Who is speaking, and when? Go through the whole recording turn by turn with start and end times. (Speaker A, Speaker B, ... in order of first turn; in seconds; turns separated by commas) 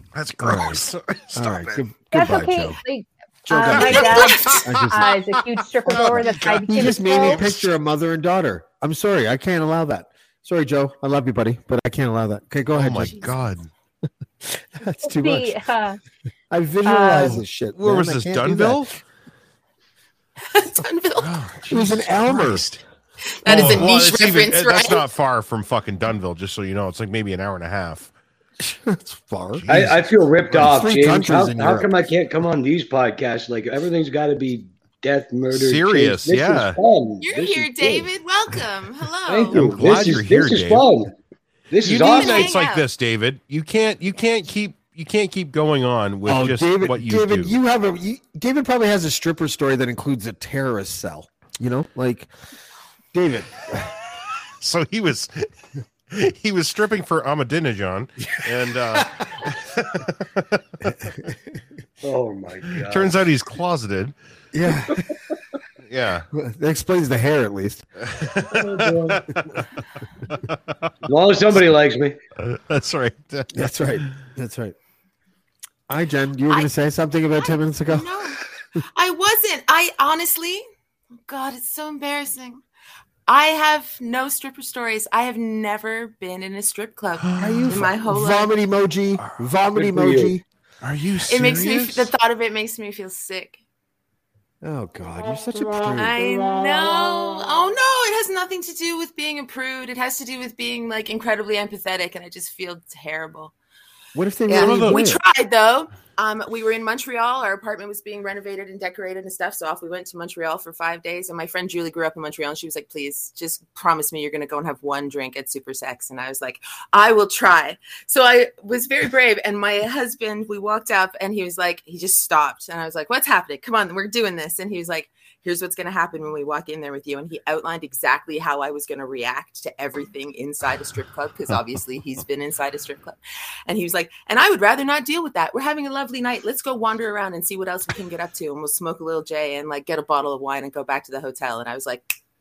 Speaker A: 0.1-1.8, Speaker B: 0.4-0.8, Speaker B: 1.3-2.8, Speaker C: 2.1-7.5, Speaker B: 3.5-4.0, Speaker A: 3.7-4.3, Speaker D: 4.0-4.5, Speaker B: 4.6-5.0, Speaker A: 5.0-6.6, Speaker B: 5.9-13.2, Speaker A: 12.7-13.7, Speaker D: 13.1-13.3, Speaker B: 14.5-15.6, Speaker C: 15.1-16.0, Speaker B: 16.5-18.9, Speaker C: 16.8-17.4, Speaker A: 17.8-18.9, Speaker D: 20.5-21.4, Speaker A: 21.2-22.8, Speaker B: 21.7-22.7, Speaker D: 23.4-25.1, Speaker A: 23.4-28.1, Speaker B: 23.5-23.8, Speaker B: 28.8-29.7, Speaker A: 29.5-30.0, Speaker E: 29.7-38.1, Speaker B: 30.5-31.9, Speaker A: 35.5-36.8, Speaker D: 37.2-39.6, Speaker E: 39.3-41.1, Speaker A: 39.5-40.9, Speaker E: 41.7-42.6, Speaker A: 41.8-47.5, Speaker D: 42.0-42.9, Speaker B: 46.2-52.3, Speaker B: 53.1-53.9, Speaker A: 54.6-55.5, Speaker A: 56.1-60.0, Speaker B: 60.9-61.3, Speaker E: 62.0-63.1, Speaker A: 62.9-64.1, Speaker B: 64.5-65.0, Speaker A: 65.8-66.2, Speaker B: 66.3-67.8, Speaker A: 68.2-69.4, Speaker E: 68.5-69.2, Speaker E: 71.0-72.2, Speaker A: 72.4-73.7, Speaker B: 73.5-74.7, Speaker B: 75.9-78.1, Speaker D: 77.3-78.4, Speaker D: 78.9-80.6, Speaker D: 81.3-82.6, Speaker D: 83.3-88.5, Speaker A: 87.2-87.8, Speaker B: 87.4-90.4, Speaker E: 89.7-90.3, Speaker A: 90.8-92.1, Speaker D: 91.2-93.6, Speaker B: 94.6-96.1, Speaker D: 95.9-103.5, Speaker B: 104.1-105.2, Speaker D: 104.5-142.1, Speaker A: 104.5-105.0